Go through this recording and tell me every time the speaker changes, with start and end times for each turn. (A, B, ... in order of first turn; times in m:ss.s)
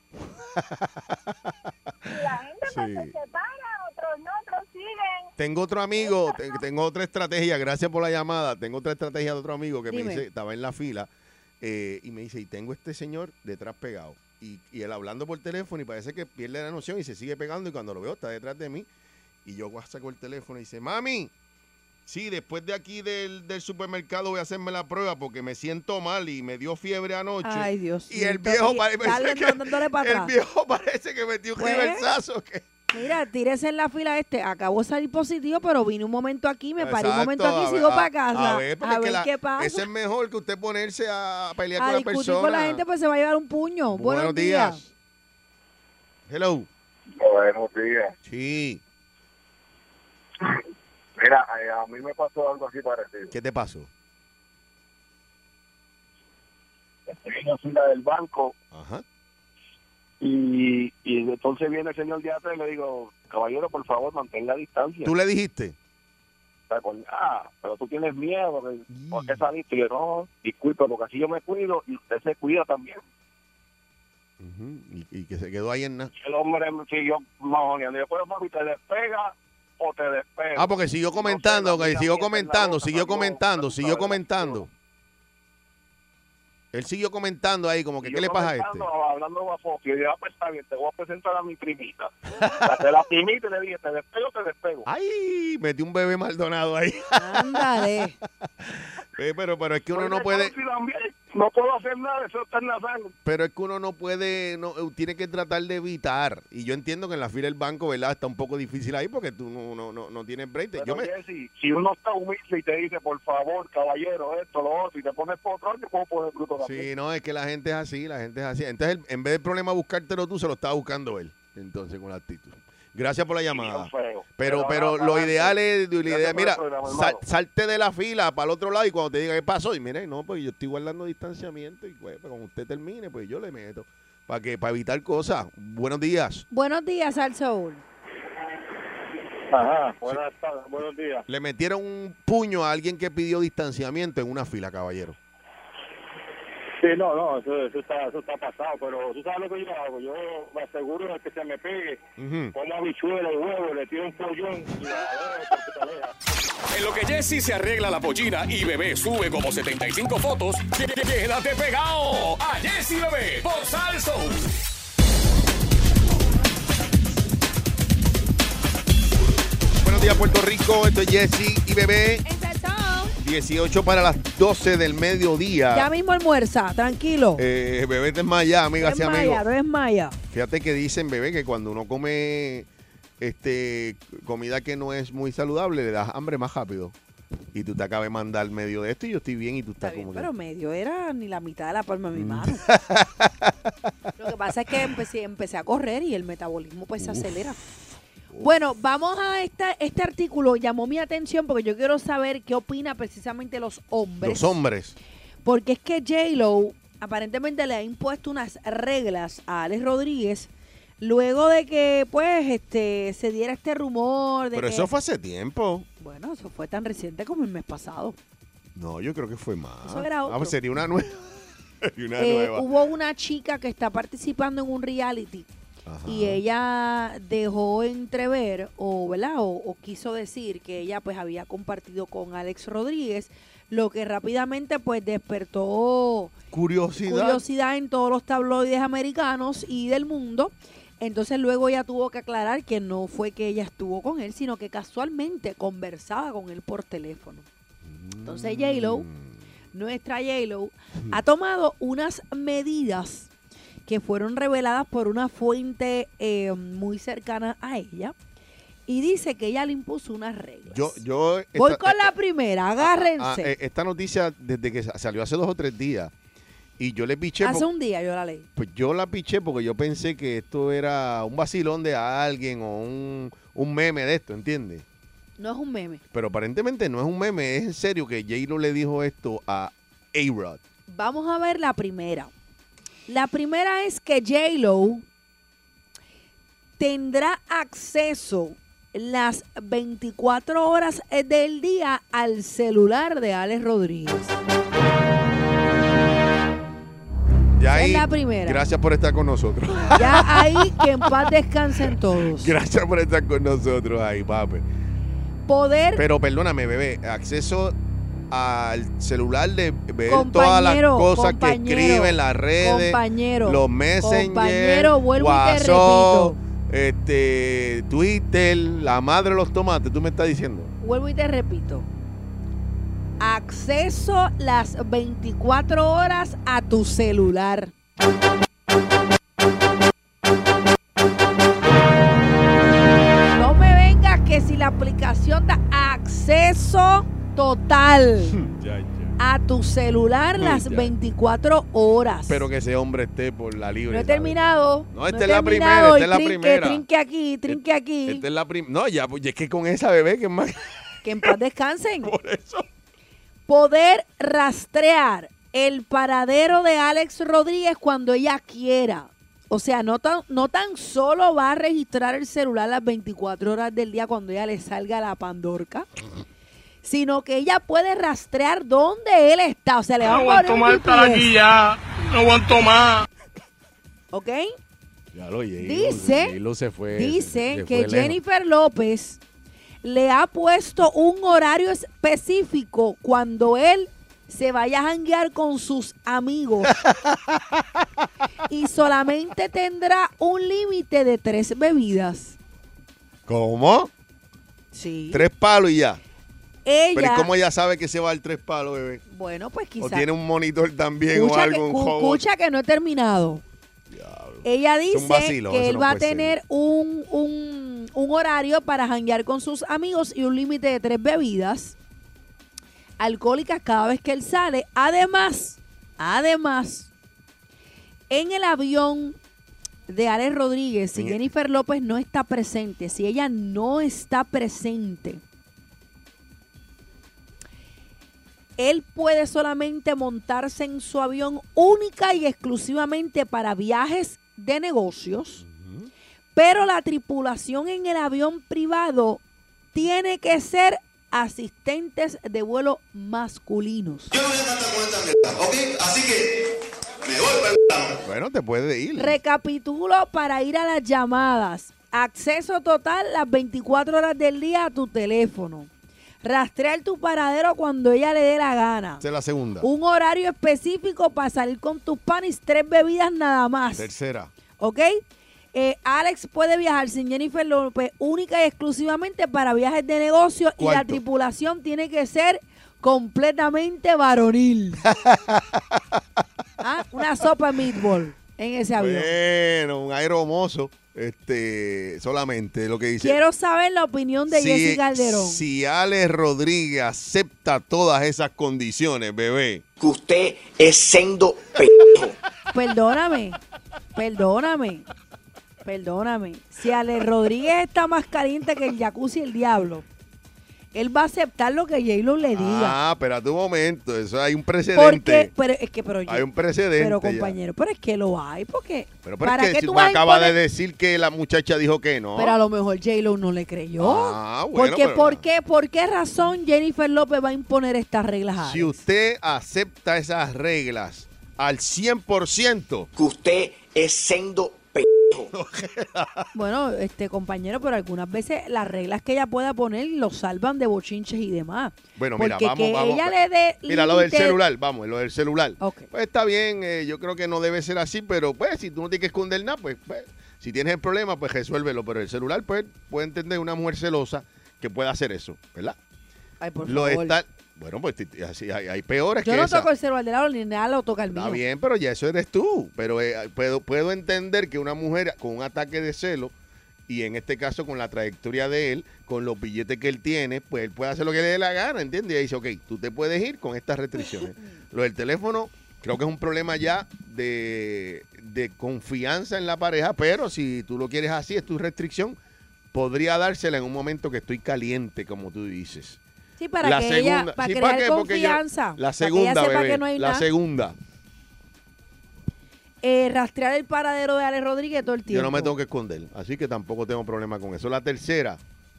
0:00.3-0:01.5 A
0:02.1-0:05.3 B
0:02.6-0:03.1 A
0:05.4-0:11.1 A
0:06.0-0:06.6 B
0:09.9-0:10.2 C
0:11.6-0:18.9 A
0:19.4-0:21.3 A
0:22.1-0:32.7 A
0:27.4-0:30.3 C
0:31.6-0:32.1 C
0:32.9-0:39.8 C
0:36.8-0:42.8 A
0:41.8-0:44.8 C
0:43.9-0:44.9 A
0:46.3-0:46.7 A
0:47.2-0:48.1 D
0:48.2-0:48.8 A
0:51.2-0:53.3 D
0:53.3-0:53.9 A
0:57.1-0:58.6 D
0:58.7-0:59.0 A
1:00.2-1:05.1 D
1:05.0-1:05.8 A
1:06.7-1:13.0 D
1:08.9-1:09.5 A
1:14.4-1:16.1 A
1:16.2-1:24.6 D
1:20.6-1:24.7 A
1:26.7-1:28.9 A
1:28.0-1:34.9 D
1:32.4-1:32.8 A
1:34.8-1:37.8 A
1:37.2-1:38.2 C
1:38.4-1:40.5 A
1:39.9-1:43.1 D
1:43.2-1:51.1 A
1:50.8-1:56.8 D
1:56.6-2:16.4 A
2:03.5-2:05.6 D
2:06.1-2:07.2 D
2:16.5-2:17.8 C
2:19.5-2:21.2 D
2:21.3-2:25.2 A
2:26.8-2:32.0 D
2:32.2-2:32.5 A
2:32.6-2:36.1 D
2:36.7-2:44.5 E
2:49.8-2:52.2 A
2:52.2-2:53.2 C
2:53.2-2:55.9 A
2:55.7-2:57.4 C
2:57.4-2:59.4 A
2:58.8-3:00.2 C
3:00.3-3:02.7 A
3:03.2-3:07.0 A
3:07.5-3:10.3 A
3:09.8-3:12.6 C
3:12.2-3:13.7 A
3:14.2-3:17.6 C
3:17.0-3:18.5 A
3:18.4-3:24.6 C
3:24.2-3:25.0 A
3:25.4-3:34.9 C
3:34.5-3:35.9 A
3:36.0-3:38.2 C
3:38.8-3:42.7 A
3:39.8-3:40.6 C
3:42.2-3:45.5 C
3:45.9-3:46.4 A
3:46.0-3:56.3 C
3:56.5-3:57.4 A
3:57.0-4:07.5 C
4:07.8-4:09.4 A
4:08.2-4:09.1 C
4:09.7-4:13.3 C
4:13.9-4:18.2 C
4:18.9-4:21.0 C
4:20.7-4:22.1 A
4:21.5-4:23.5 C
4:22.8-4:26.1 A
4:26.8-4:27.7 A
4:27.4-4:28.5 C
4:28.6-4:34.8 A
4:35.4-4:36.0 C
4:36.1-4:40.6 A
4:40.9-4:42.3 C
4:43.1-4:45.0 C
4:46.8-4:54.4 C
4:57.5-5:01.1 A
4:57.7-4:58.6 C
5:00.0-5:02.5 C
5:01.9-5:04.7 A
5:05.5-5:06.0 C
5:06.0-5:07.8 A
5:08.3-5:20.7 A
5:10.1-5:16.4 C
5:20.8-5:21.9 C
5:23.2-5:27.7 C
5:33.3-5:38.4 C
5:38.3-5:39.2 A
5:39.2-5:42.4 C
5:40.4-5:40.9 A
5:42.3-5:44.4 A
5:43.9-5:48.2 C
5:44.9-5:46.8 A
5:47.5-5:51.3 A
5:51.0-5:52.1 C
5:52.0-5:52.7 A
5:53.5-6:05.9 C
6:06.8-6:11.4 C
6:14.1-6:14.5 C
6:15.1-6:18.2 A
6:15.6-6:16.4 C
6:16.9-6:19.2 C
6:19.8-6:26.8 C
6:26.7-6:27.6 A
6:28.5-6:32.4 C
6:33.3-6:33.9 A
6:34.7-6:35.2 C
6:35.1-6:36.0 A
6:36.7-6:37.3 C
6:36.9-6:39.0 A
6:39.1-6:40.1 C
6:39.8-6:42.2 A
6:41.1-6:43.4 C
6:43.9-6:46.4 A
6:44.4-6:51.8 C
6:53.0-6:56.9 C
6:58.1-6:59.2 C
6:59.9-7:05.2 C
7:01.0-7:01.2 A
7:08.6-7:15.4 C
7:15.4-7:15.9 A
7:16.4-7:19.2 C
7:19.7-7:24.1 C
7:24.1-7:26.3 A
7:27.0-7:29.2 A
7:29.0-7:35.7 C
7:36.2-7:39.0 C
7:39.0-7:39.7 A
7:39.6-7:43.9 C
7:43.8-7:44.3 A
7:44.6-7:45.0 C
7:45.5-7:54.8 C
7:50.6-7:51.0 A
7:54.8-7:56.0 A
7:56.6-7:59.1 C
7:58.8-8:03.2 A
8:03.0-8:05.4 C
8:04.3-8:09.6 A
8:09.8-8:12.2 F
8:12.5-8:13.4 C
8:14.0-8:14.9 C
8:15.6-8:19.9 C
8:20.7-8:22.8 C
8:22.3-8:25.3 A
8:24.7-8:30.4 C
8:26.1-8:27.4 A
8:29.0-8:32.4 A
8:32.2-8:38.8 C
8:33.8-8:35.2 A
8:38.4-8:42.9 A
8:43.0-8:45.3 F
8:45.3-8:46.3 A
8:46.3-8:54.4 C
8:52.0-8:53.2 A
8:53.7-9:05.8 A
8:55.6-8:55.9 C
9:06.4-9:07.2 C
9:06.7-9:09.7 A
9:09.2-9:11.4 C
9:11.1-9:16.3 A
9:16.9-9:32.2 A
9:32.7-9:36.0 A
9:36.4-9:40.3 C
9:36.6-9:40.8 A
9:42.8-9:45.5 C
9:45.1-9:48.4 A